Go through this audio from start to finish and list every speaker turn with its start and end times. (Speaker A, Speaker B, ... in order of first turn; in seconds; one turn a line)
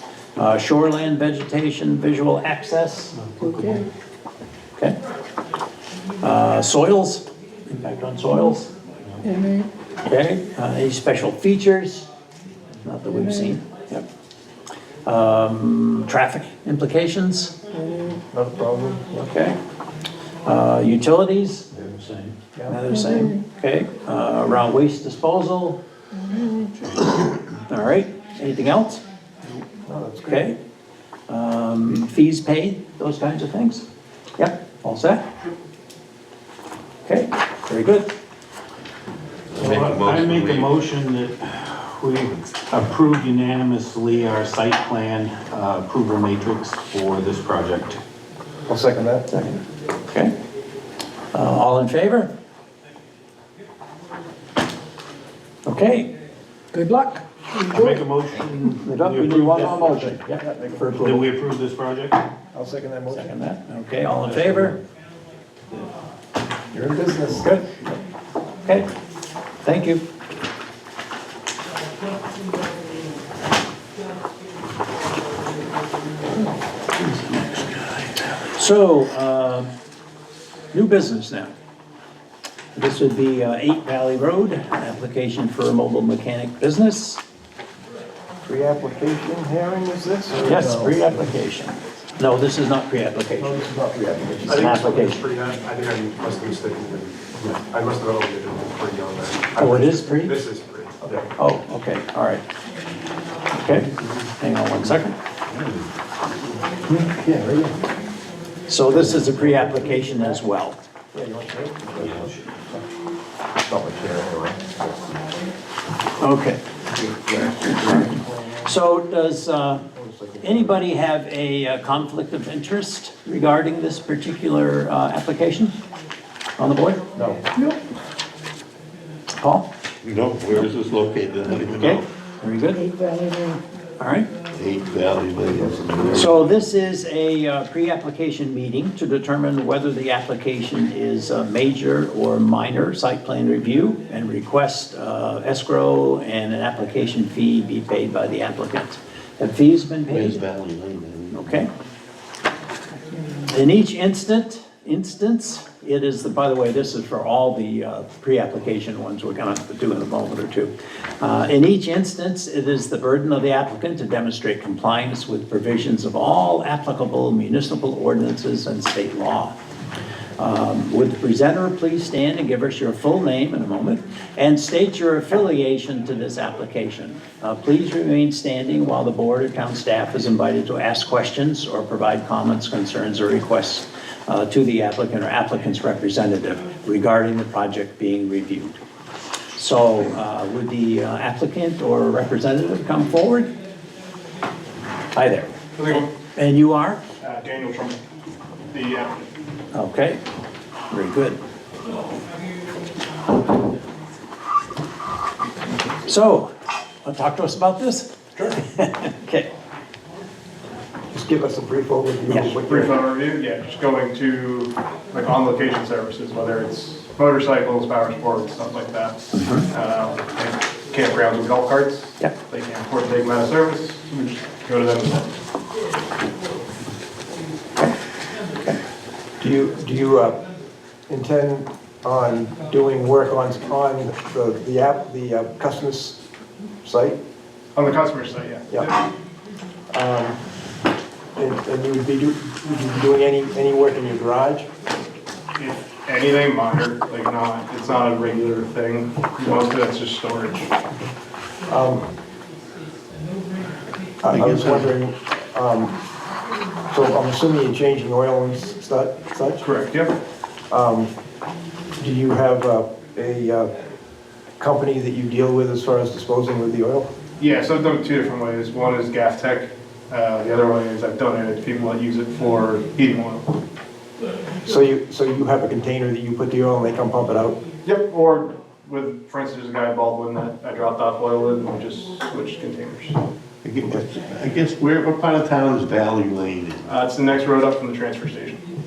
Speaker A: 0.4-3.2
Speaker B: 3.4-3.9
Speaker A: 6.2-8.7
Speaker B: 9.2-9.7
Speaker A: 10.0-12.1
Speaker A: 12.8-14.1
Speaker B: 13.3-13.5
Speaker A: 15.1-17.6
Speaker B: 17.7-18.2
Speaker C: 18.3-19.3
Speaker A: 19.2-19.6
Speaker A: 20.4-25.8
Speaker C: 22.6-22.8
Speaker B: 22.9-23.4
Speaker B: 26.3-26.7
Speaker A: 27.7-29.0
Speaker C: 29.5-30.5
Speaker A: 30.3-30.6
Speaker A: 31.3-33.9
Speaker A: 34.4-35.2
Speaker A: 37.0-38.1
Speaker D: 39.5-40.7
Speaker E: 39.6-48.0
Speaker C: 48.7-49.3
Speaker A: 49.3-49.6
Speaker A: 51.3-52.3
Speaker A: 55.6-56.1
Speaker B: 56.7-58.0
Speaker E: 57.6-60.2
Speaker A: 58.8-61.2
Speaker C: 59.7-61.2
Speaker E: 61.0-62.2
Speaker C: 62.5-63.4
Speaker A: 63.1-64.8
Speaker C: 66.7-67.5
Speaker A: 67.4-68.0
Speaker A: 69.6-70.0
Speaker E: 77.1-77.8
Speaker A: 78.4-79.7
Speaker A: 80.7-81.5
Speaker A: 82.7-87.2
Speaker C: 88.5-91.2
Speaker A: 90.5-93.7
Speaker C: 93.4-95.3
Speaker A: 94.4-95.2
Speaker F: 94.5-97.3
Speaker C: 97.4-100.4
Speaker F: 98.1-98.5
Speaker A: 99.6-100.4
Speaker F: 100.2-101.1
Speaker C: 101.0-101.3
Speaker A: 101.4-102.4
Speaker A: 103.5-105.2
Speaker C: 106.9-107.7
Speaker A: 108.7-110.8
Speaker C: 108.9-110.4
Speaker C: 111.1-112.8
Speaker C: 113.6-115.2
Speaker A: 116.2-116.6
Speaker C: 116.9-118.7
Speaker A: 117.3-118.1
Speaker A: 118.6-119.8
Speaker C: 119.9-120.8
Speaker A: 120.4-125.8
Speaker A: 126.6-127.0
Speaker C: 127.2-127.7
Speaker A: 129.4-129.7
Speaker D: 130.0-132.1
Speaker A: 131.6-133.0
Speaker B: 132.9-133.6
Speaker A: 134.0-134.3
Speaker D: 134.5-136.5
Speaker A: 136.1-150.4
Speaker D: 150.1-151.6
Speaker A: 151.3-151.7
Speaker A: 153.4-169.6
Speaker A: 170.4-188.8
Speaker A: 189.6-193.5
Speaker A: 195.2-197.0
Speaker F: 195.8-196.1
Speaker F: 197.2-198.0
Speaker F: 198.7-199.2
Speaker A: 199.7-200.2
Speaker A: 200.9-201.4
Speaker A: 206.0-206.5
Speaker A: 207.1-209.5
Speaker C: 211.1-213.0
Speaker A: 212.3-212.5
Speaker F: 212.6-225.3
Speaker A: 219.3-219.7
Speaker C: 229.4-230.4
Speaker C: 231.1-236.2
Speaker C: 236.8-237.2
Speaker F: 237.8-238.9
Speaker C: 239.9-240.4
Speaker C: 241.3-244.7
Speaker F: 245.6-250.7
Speaker C: 251.7-252.1
Speaker C: 254.2-255.9
Speaker D: 254.3-254.9
Speaker C: 256.9-259.7
Speaker F: 259.6-260.2
Speaker C: 260.7-261.1
Speaker C: 262.0-263.7
Speaker C: 264.6-267.1
Speaker F: 267.4-273.6
Speaker C: 274.6-277.6
Speaker F: 277.8-283.2
Speaker D: 283.6-286.9
Speaker F: 286.9-288.6